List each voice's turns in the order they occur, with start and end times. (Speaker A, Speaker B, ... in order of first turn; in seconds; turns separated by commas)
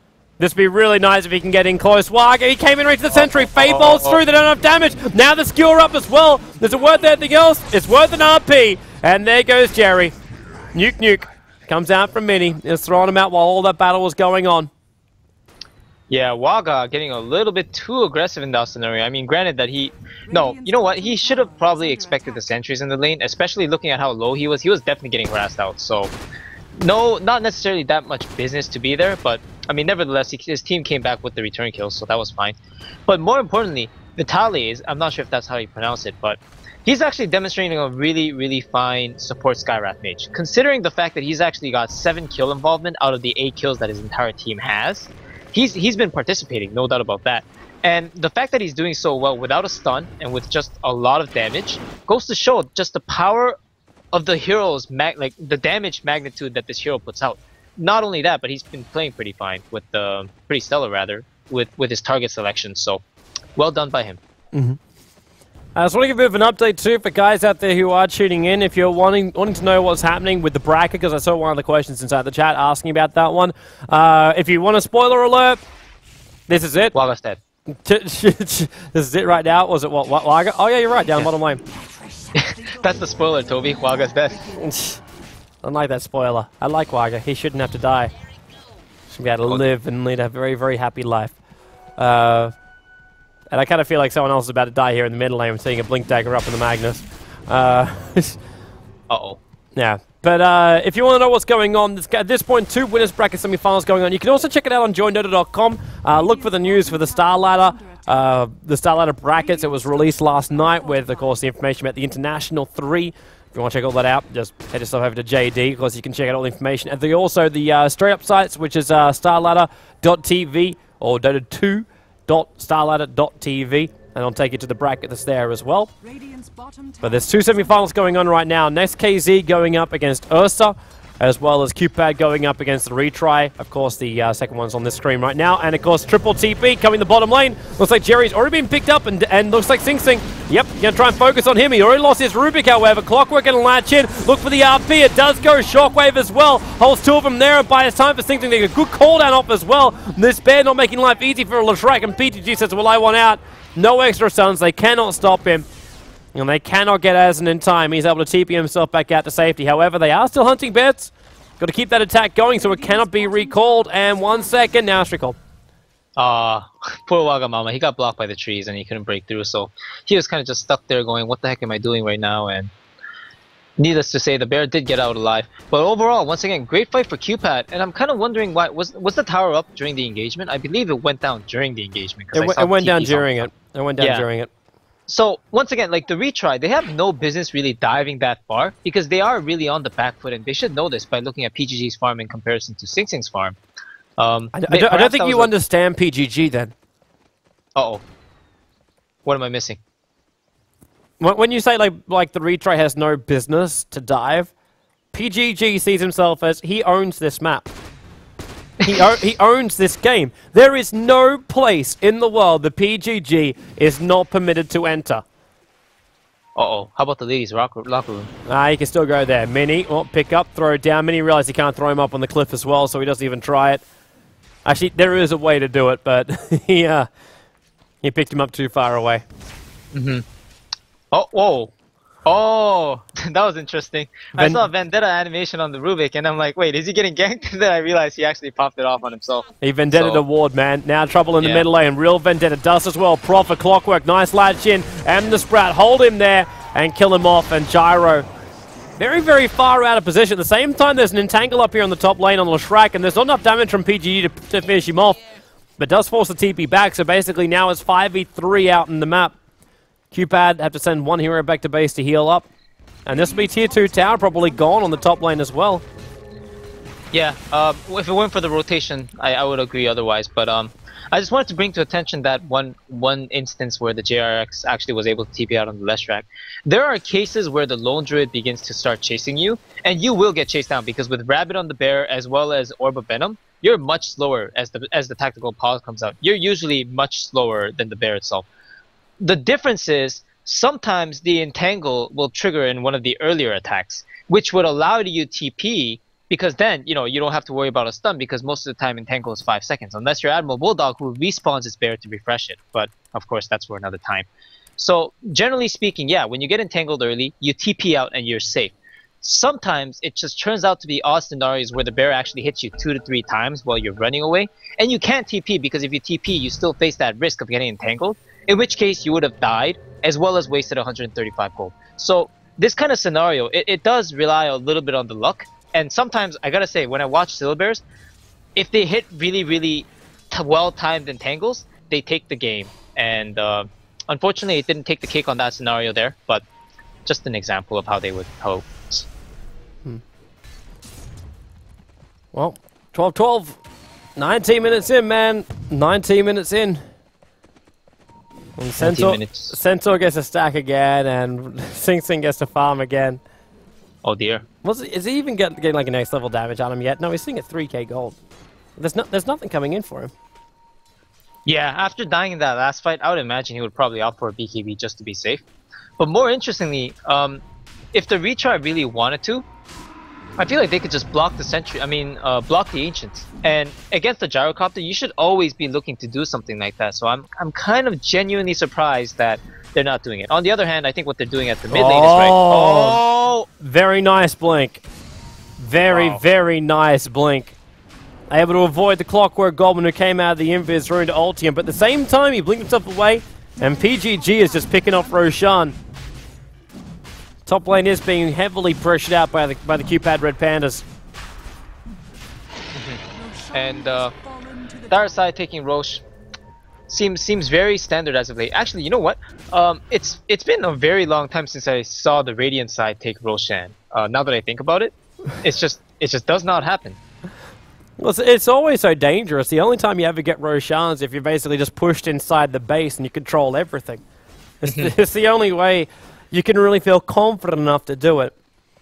Speaker A: 0.4-10.1, Speaker B: 3.1-4.2, Speaker A: 10.7-14.7, Speaker B: 16.1-26.1, Speaker C: 20.3-22.6, Speaker B: 26.8-53.6, Speaker B: 54.1-63.0, Speaker B: 63.6-64.2, Speaker A: 64.5-64.8, Speaker A: 65.8-75.6, Speaker A: 76.5-77.0, Speaker B: 76.9-77.4, Speaker A: 77.7-81.6, Speaker C: 81.9-84.9, Speaker B: 82.3-84.5, Speaker A: 84.5-85.0, Speaker A: 85.6-88.1, Speaker A: 89.1-91.3, Speaker A: 92.0-92.5, Speaker A: 93.5-98.4, Speaker B: 99.1-99.4, Speaker A: 99.8-125.9, Speaker C: 106.1-108.4, Speaker C: 109.2-111.4, Speaker C: 126.0-128.2, Speaker A: 127.0-155.7, Speaker A: 156.3-165.4, Speaker C: 162.4-164.9, Speaker B: 166.2-172.7, Speaker B: 173.8-183.5, Speaker A: 182.3-184.5, Speaker B: 184.0-184.3, Speaker B: 185.1-193.6, Speaker B: 194.2-195.5, Speaker A: 194.5-196.7, Speaker B: 197.8-198.0, Speaker B: 199.2-199.8, Speaker A: 201.2-204.5, Speaker A: 205.1-207.7, Speaker A: 208.8-215.2, Speaker B: 216.6-218.3, Speaker A: 218.5-223.8, Speaker A: 224.7-227.1, Speaker A: 228.0-229.2, Speaker B: 229.9-230.2, Speaker B: 231.1-231.7, Speaker B: 232.3-240.2, Speaker A: 234.3-234.7, Speaker A: 239.6-248.3, Speaker B: 241.4-241.7, Speaker A: 249.0-255.2, Speaker A: 255.8-259.4, Speaker A: 260.1-262.5, Speaker A: 263.1-265.8, Speaker C: 263.1-265.6, Speaker B: 267.1-288.5, Speaker B: 289.2-327.8, Speaker B: 328.6-336.4, Speaker B: 337.1-339.1, Speaker A: 342.3-343.6, Speaker A: 344.2-346.8, Speaker A: 348.6-353.2, Speaker B: 348.8-349.6, Speaker B: 354.0-354.4, Speaker A: 354.6-358.2, Speaker A: 358.8-360.1, Speaker B: 361.5-365.4, Speaker B: 366.0-367.4, Speaker B: 367.9-369.5, Speaker B: 370.4-383.5, Speaker A: 381.7-383.0, Speaker A: 383.6-384.8, Speaker A: 385.6-387.6, Speaker B: 385.9-386.2, Speaker A: 388.3-395.8, Speaker C: 393.6-395.7, Speaker A: 397.5-400.9, Speaker B: 402.7-403.0, Speaker C: 403.1-405.4, Speaker B: 403.5-404.1, Speaker B: 404.9-406.0, Speaker B: 406.9-417.0, Speaker A: 418.0-424.0, Speaker A: 424.6-428.3, Speaker B: 424.7-424.9